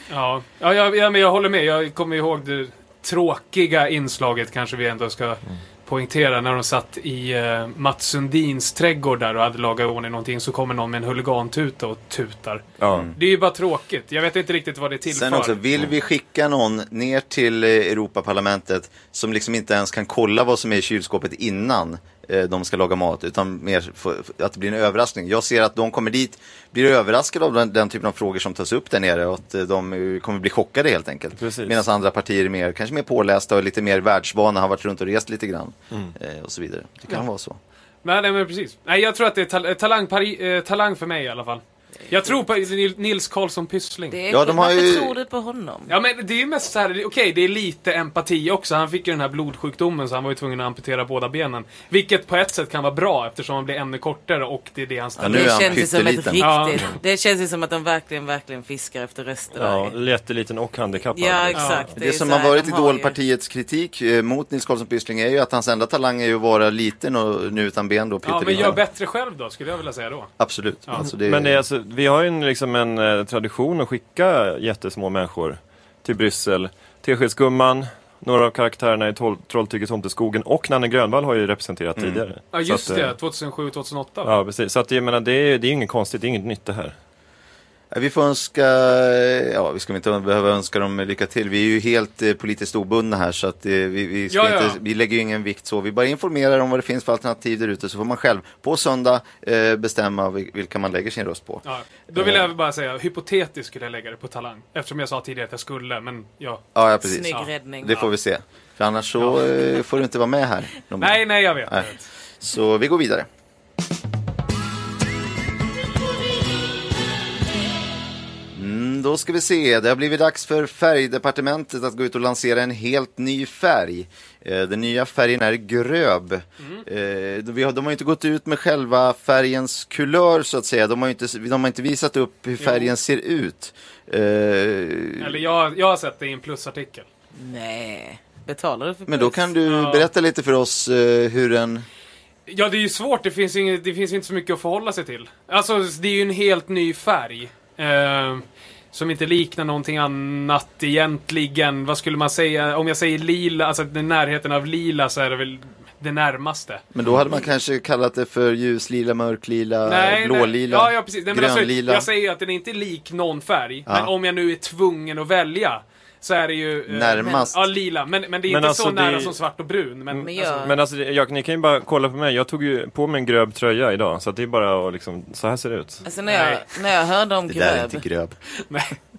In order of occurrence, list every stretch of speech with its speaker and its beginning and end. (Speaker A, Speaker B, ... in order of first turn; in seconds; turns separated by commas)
Speaker A: 0.1-15.6, Speaker B: 12.8-13.1, Speaker C: 12.9-13.2, Speaker C: 15.1-37.6, Speaker B: 31.4-31.8, Speaker A: 38.0-44.2, Speaker D: 44.1-45.9, Speaker C: 44.3-45.1, Speaker A: 45.9-55.8, Speaker C: 55.2-56.6, Speaker D: 55.3-60.0, Speaker A: 56.4-56.8, Speaker B: 59.5-61.9, Speaker D: 61.1-63.2, Speaker A: 61.5-61.9, Speaker C: 62.0-68.8, Speaker A: 68.2-70.3, Speaker C: 70.4-71.6, Speaker B: 71.1-83.1, Speaker A: 82.5-84.3, Speaker B: 84.2-87.0, Speaker C: 87.9-101.6, Speaker A: 94.3-94.8, Speaker A: 101.6-106.6, Speaker C: 102.1-102.5, Speaker C: 106.8-111.9, Speaker D: 107.0-108.1, Speaker A: 111.0-112.0, Speaker C: 112.4-113.3, Speaker C: 118.5-135.4, Speaker A: 132.6-132.9, Speaker A: 135.2-137.1, Speaker D: 137.4-139.5, Speaker C: 139.1-141.8, Speaker A: 139.7-140.1, Speaker A: 142.5-156.8, Speaker C: 156.9-162.1, Speaker A: 159.8-170.7, Speaker C: 163.9-164.1, Speaker C: 166.9-167.6, Speaker B: 168.5-169.4, Speaker B: 170.1-176.0, Speaker D: 170.2-170.7, Speaker D: 176.0-178.1, Speaker A: 176.3-176.8, Speaker C: 177.5-178.4, Speaker A: 178.7-179.0